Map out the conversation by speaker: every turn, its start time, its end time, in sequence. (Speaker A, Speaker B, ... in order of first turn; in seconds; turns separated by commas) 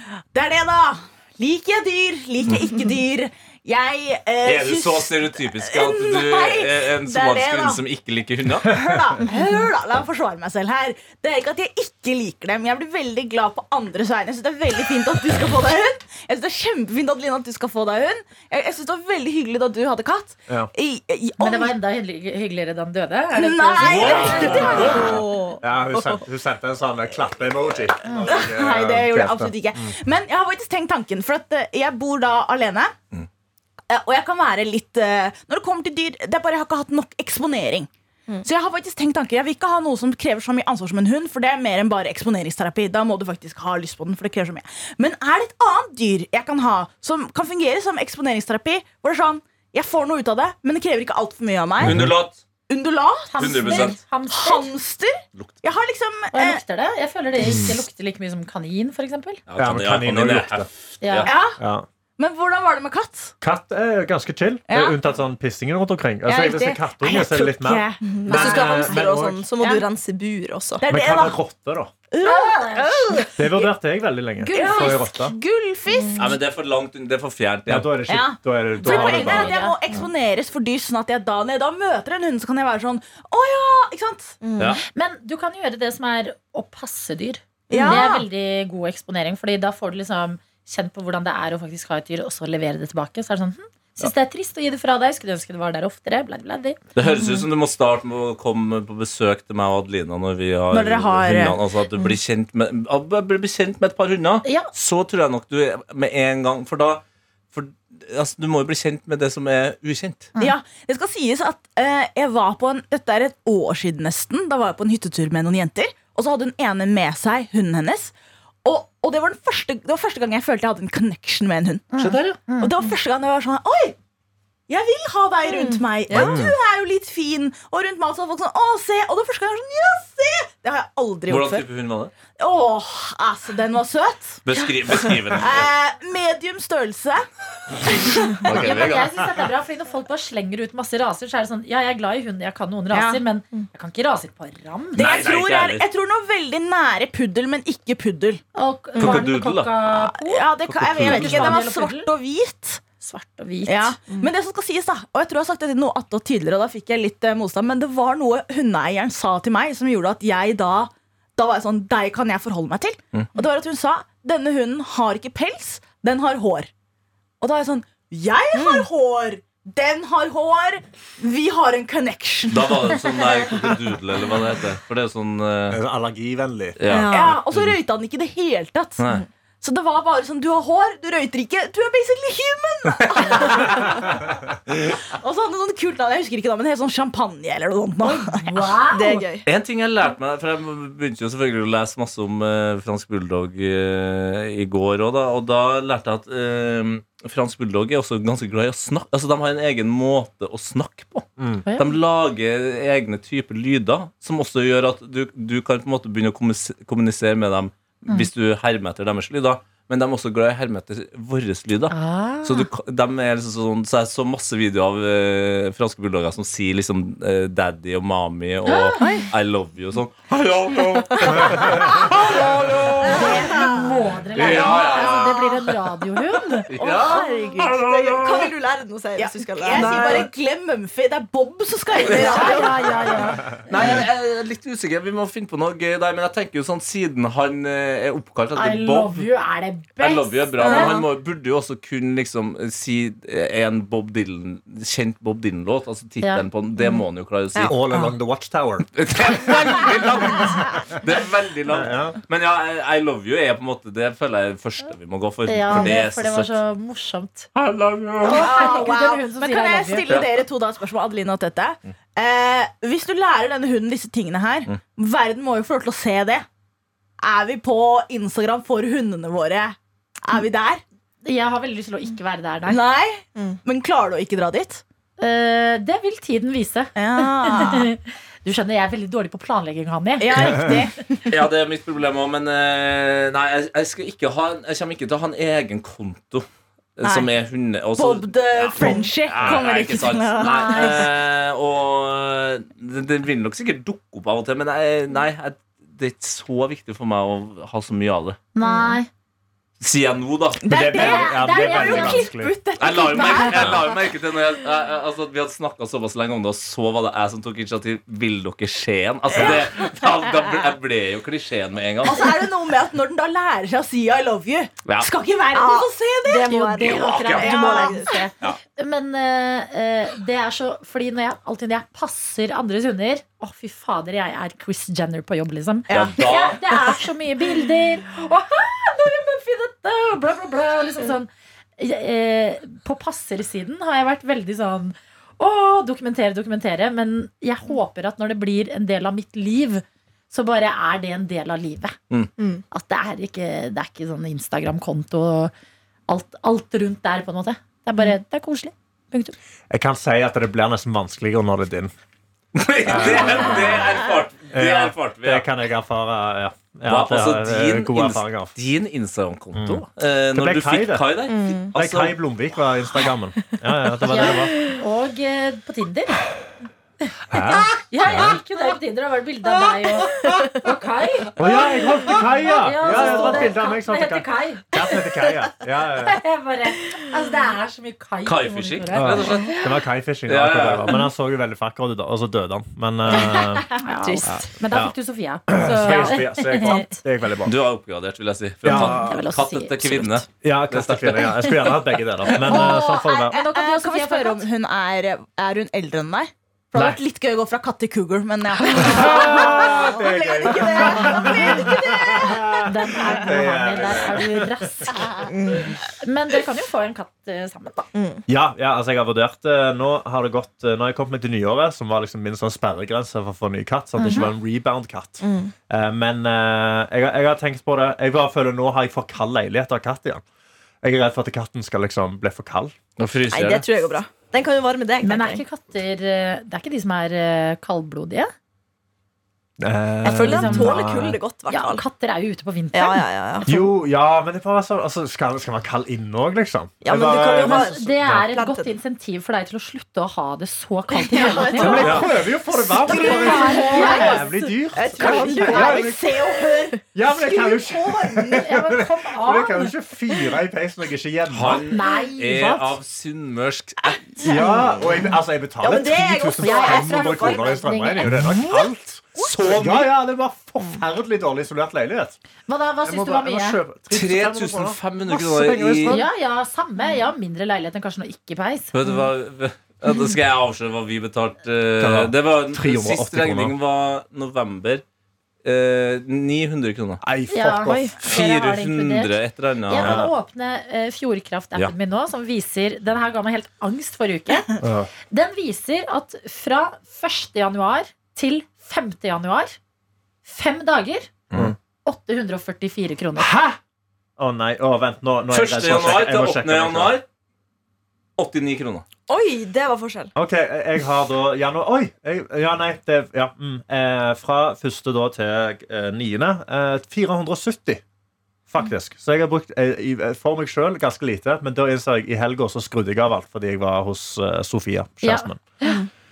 Speaker A: 0.3-7.8, Speaker B: 4.4-8.8, Speaker A: 8.6-21.7, Speaker C: 21.4-25.1, Speaker A: 23.3-25.2, Speaker B: 23.8-25.2, Speaker D: 24.1-26.2, Speaker E: 24.3-29.9, Speaker A: 28.1-32.9, Speaker A: 33.9-37.9, Speaker A: 38.4-52.0, Speaker E: 51.8-52.2, Speaker B: 51.8-52.4, Speaker A: 52.7-56.6, Speaker C: 53.3-54.7, Speaker B: 53.4-54.0, Speaker C: 56.3-59.4, Speaker E: 57.4-57.8, Speaker B: 59.5-61.3, Speaker E: 59.6-60.7, Speaker C: 61.0-61.3, Speaker A: 61.2-61.6, Speaker E: 61.6-61.9, Speaker A: 62.2-63.3, Speaker E: 63.4-69.5, Speaker A: 64.7-65.0, Speaker A: 66.2-69.9, Speaker D: 68.0-70.8, Speaker A: 70.8-71.4, Speaker E: 70.9-71.9, Speaker A: 72.1-73.4, Speaker C: 72.2-73.3, Speaker E: 73.3-75.3, Speaker C: 74.4-75.0, Speaker A: 74.5-76.4, Speaker B: 76.2-77.9, Speaker E: 77.7-79.5, Speaker A: 78.1-84.4, Speaker C: 78.8-79.8, Speaker D: 84.4-84.8, Speaker C: 84.9-96.8, Speaker D: 87.7-88.2, Speaker A: 87.7-88.1, Speaker B: 96.9-110.3, Speaker A: 100.7-101.6, Speaker C: 104.4-104.7, Speaker A: 110.4-118.1, Speaker A: 118.6-121.9, Speaker C: 121.9-122.7, Speaker B: 122.0-122.4, Speaker A: 122.6-124.0, Speaker A: 124.7-131.7, Speaker D: 125.5-126.4, Speaker E: 126.1-126.5, Speaker B: 131.3-132.1, Speaker A: 132.4-134.4, Speaker B: 134.4-135.7, Speaker A: 135.3-137.2, Speaker A: 137.8-138.6, Speaker B: 138.4-139.3, Speaker C: 138.4-145.1, Speaker A: 142.9-143.2, Speaker A: 144.9-148.4, Speaker B: 145.0-145.9, Speaker C: 148.5-152.1, Speaker B: 149.0-149.7, Speaker A: 149.9-152.8, Speaker B: 150.7-151.6, Speaker C: 153.0-154.0, Speaker A: 153.7-166.7, Speaker A: 167.4-173.2, Speaker D: 168.5-168.9, Speaker B: 172.5-175.8, Speaker E: 175.7-176.8, Speaker B: 176.8-177.7, Speaker D: 176.9-177.4, Speaker A: 177.1-179.0, Speaker B: 179.0-179.2, Speaker A: 179.6-184.6, Speaker A: 185.1-188.7, Speaker C: 188.0-189.2, Speaker D: 188.9-189.4, Speaker B: 189.4-223.6, Speaker E: 201.4-201.6, Speaker C: 201.6-202.0, Speaker C: 211.9-212.7, Speaker C: 218.7-219.2, Speaker D: 219.0-219.3, Speaker E: 221.3-221.9, Speaker C: 221.8-226.7, Speaker A: 223.1-223.9, Speaker D: 223.2-223.8, Speaker B: 224.3-225.6, Speaker A: 224.5-225.3, Speaker B: 226.7-228.5, Speaker A: 226.8-227.7, Speaker D: 226.8-230.3, Speaker A: 229.2-232.9, Speaker B: 229.7-230.3, Speaker D: 232.0-233.0, Speaker B: 232.0-232.5, Speaker C: 232.1-233.7, Speaker B: 233.4-239.2, Speaker C: 238.5-241.0, Speaker B: 240.0-247.7, Speaker A: 240.7-240.9, Speaker D: 240.7-241.0, Speaker E: 247.6-248.9, Speaker B: 248.9-256.5, Speaker E: 251.7-252.2, Speaker C: 255.5-257.5, Speaker B: 257.5-258.6, Speaker A: 258.2-266.4, Speaker C: 258.2-260.2, Speaker A: 267.2-270.8, Speaker C: 271.2-272.8, Speaker A: 272.7-274.8, Speaker C: 275.2-280.8, Speaker A: 276.9-277.9, Speaker A: 280.2-281.3, Speaker B: 281.3-286.4, Speaker B: 287.0-298.4, Speaker A: 287.0-287.3, Speaker A: 288.0-291.1, Speaker E: 288.8-289.6, Speaker C: 290.4-291.1, Speaker C: 298.5-299.1, Speaker B: 299.8-300.8, Speaker A: 300.6-304.0, Speaker E: 300.6-302.5, Speaker C: 300.9-302.3, Speaker B: 302.8-312.4, Speaker A: 309.3-309.6, Speaker A: 312.0-318.1, Speaker B: 314.8-315.1, Speaker D: 315.5-318.2, Speaker C: 316.3-341.9, Speaker B: 316.8-317.9, Speaker A: 325.9-326.1, Speaker B: 325.9-326.6, Speaker D: 342.4-342.6, Speaker C: 342.7-345.5, Speaker C: 346.1-349.3, Speaker E: 349.7-351.9, Speaker B: 352.5-355.5, Speaker E: 352.9-353.9, Speaker E: 354.5-358.5, Speaker B: 356.9-362.2, Speaker E: 359.5-361.1, Speaker D: 361.3-361.7, Speaker E: 361.7-364.6, Speaker C: 364.1-366.2, Speaker E: 367.3-368.4, Speaker C: 367.3-375.0, Speaker E: 370.1-370.5, Speaker E: 371.4-376.2, Speaker C: 376.0-379.5, Speaker B: 378.2-379.6, Speaker E: 378.9-383.7, Speaker B: 380.3-380.9, Speaker C: 383.1-386.9, Speaker D: 384.0-384.5, Speaker E: 384.2-384.9, Speaker E: 385.5-387.5, Speaker B: 387.4-392.4, Speaker E: 388.6-389.2, Speaker C: 388.6-390.2, Speaker E: 390.4-393.4, Speaker C: 392.4-394.4, Speaker A: 392.4-402.6, Speaker E: 396.7-397.0, Speaker E: 398.7-404.9, Speaker C: 402.6-407.9, Speaker D: 405.3-405.8, Speaker D: 407.9-408.2, Speaker E: 408.3-420.2, Speaker D: 414.0-414.3, Speaker D: 415.2-415.5, Speaker E: 420.8-422.7, Speaker B: 423.0-423.7, Speaker D: 423.3-425.4, Speaker C: 425.0-428.3, Speaker E: 429.6-431.2, Speaker D: 430.0-431.8, Speaker C: 430.1-433.6, Speaker D: 432.7-433.5, Speaker E: 433.4-438.2, Speaker D: 436.8-438.7, Speaker C: 437.4-442.0, Speaker D: 440.9-442.1, Speaker E: 441.5-446.2, Speaker B: 441.8-442.1, Speaker D: 442.7-446.4, Speaker C: 442.8-445.7, Speaker A: 442.9-444.0, Speaker A: 445.0-448.4, Speaker E: 446.9-451.7, Speaker C: 448.3-449.7, Speaker B: 451.3-454.2, Speaker C: 451.7-452.7, Speaker E: 454.2-462.2, Speaker D: 455.6-457.3, Speaker A: 455.7-457.4, Speaker C: 456.4-458.6, Speaker B: 459.2-459.9, Speaker C: 462.5-463.6, Speaker E: 462.8-466.1, Speaker B: 463.9-466.0, Speaker C: 465.9-468.7, Speaker B: 468.7-474.8, Speaker E: 471.8-473.5, Speaker B: 475.4-477.0, Speaker E: 477.0-477.9, Speaker C: 477.3-479.1, Speaker D: 477.6-477.9, Speaker B: 478.0-480.0, Speaker C: 479.7-484.5, Speaker E: 479.8-480.1, Speaker E: 484.6-484.9, Speaker C: 485.1-489.6, Speaker C: 490.2-491.1, Speaker C: 491.8-493.3, Speaker E: 493.1-493.6, Speaker E: 494.2-496.9, Speaker B: 495.3-497.0, Speaker B: 498.2-498.8, Speaker D: 499.1-500.1, Speaker E: 500.1-507.8, Speaker E: 508.5-515.4, Speaker C: 515.0-515.8